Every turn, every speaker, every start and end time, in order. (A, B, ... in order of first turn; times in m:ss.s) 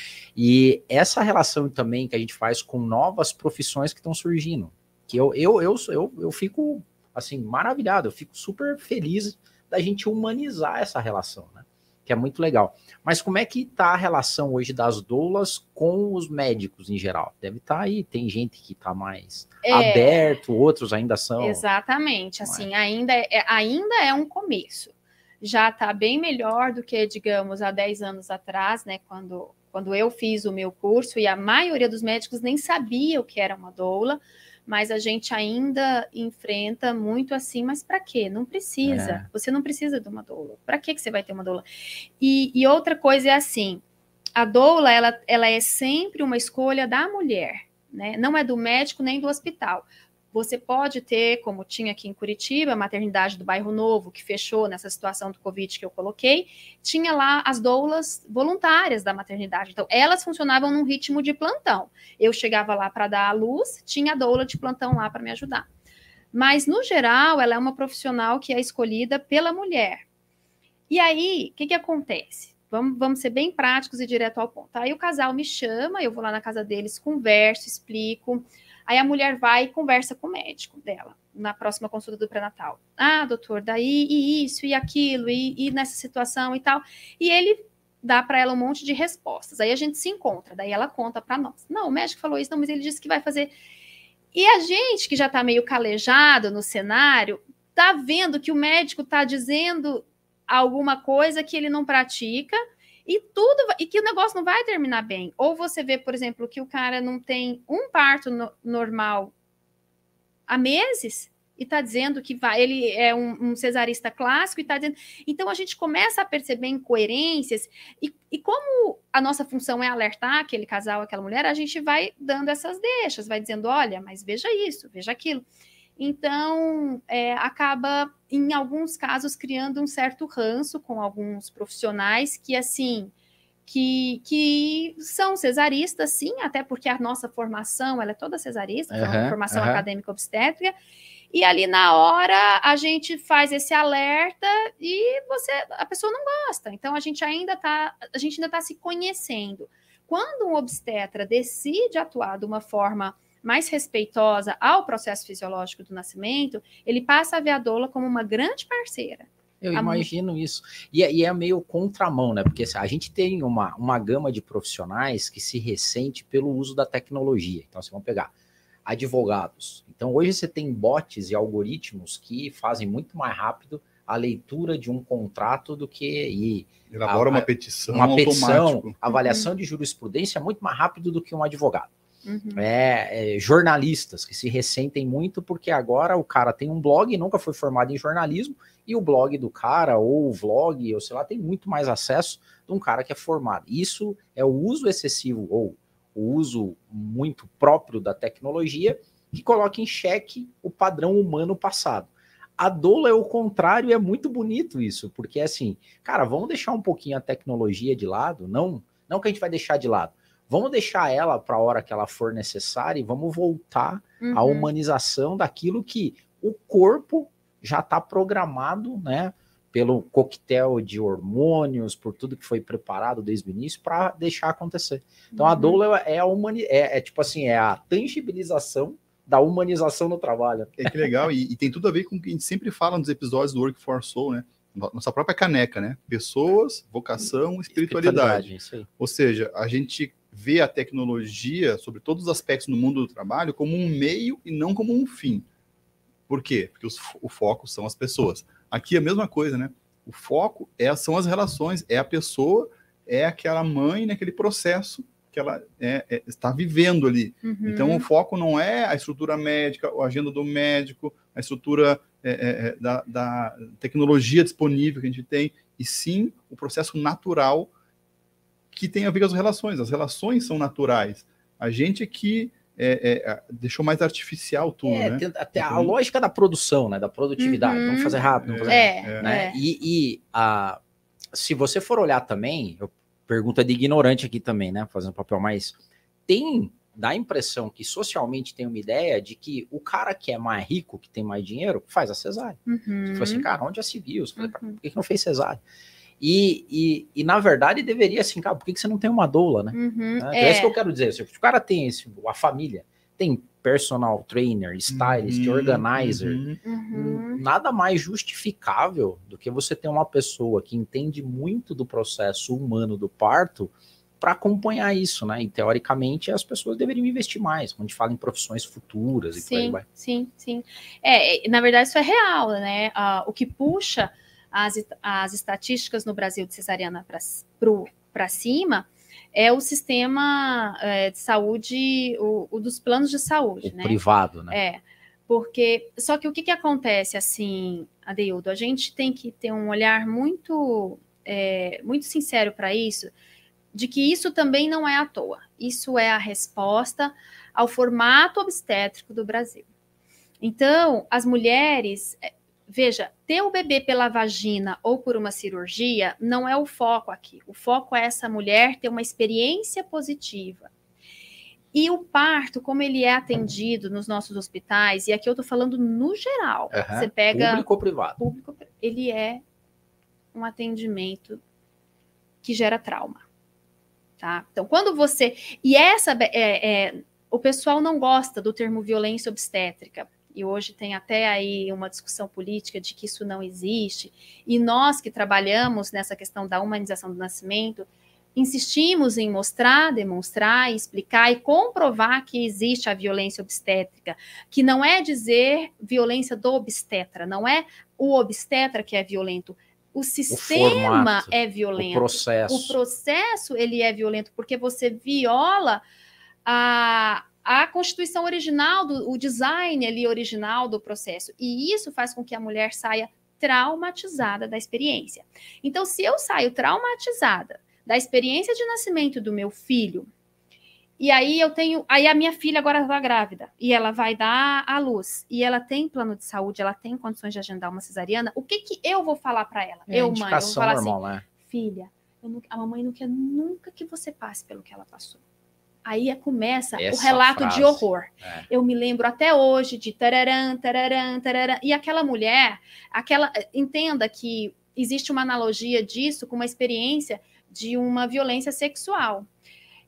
0:00.4-0:21.6 A
0:19.6-0:20.4 B
0:21.4-0:41.6 B
0:38.8-0:39.2 A
0:42.2-0:43.8 B
0:44.4-1:05.6 B
1:06.3-1:10.0 B
1:10.9-1:33.5 B
1:34.3-1:49.3 B
1:50.5-2:05.4 B
2:06.0-2:13.1 B
2:13.7-2:20.7 B
2:18.9-2:19.8 A
2:21.3-2:40.1 B
2:39.6-2:48.3 A
2:48.9-3:01.9 A
2:56.9-2:58.9 C
2:59.1-2:59.5 B
3:02.2-3:02.6 B
3:02.5-3:51.0 A
3:34.2-3:34.7 B
3:45.3-3:45.8 B
3:50.8-4:05.4 C
3:57.7-3:58.9 A
4:06.3-4:27.7 C
4:17.4-4:18.0 B
4:28.7-4:35.9 C
4:34.8-4:40.8 A
4:37.4-4:39.6 B
4:38.4-4:39.2 C
4:41.3-4:52.6 A
4:52.7-4:53.5 B
4:53.1-4:55.6 A
4:54.4-4:54.8 B
4:56.2-5:06.4 A
4:59.7-5:00.7 B
5:04.9-5:06.6 C
5:06.6-5:07.4 B
5:06.9-5:19.8 A
5:19.4-5:34.0 B
5:33.6-5:34.6 A
5:34.5-5:43.1 B
5:43.7-5:49.6 B
5:50.4-6:00.7 B
6:01.7-6:07.6 B
6:06.7-6:08.2 A
6:08.2-6:09.4 B
6:10.3-6:11.4 B
6:12.4-6:13.2 B
6:14.2-6:45.8 B
6:40.3-6:42.8 A
6:46.4-7:00.1 B
7:01.0-7:15.2 B
7:09.9-7:11.2 A
7:15.8-7:29.3 B
7:16.8-7:18.5 A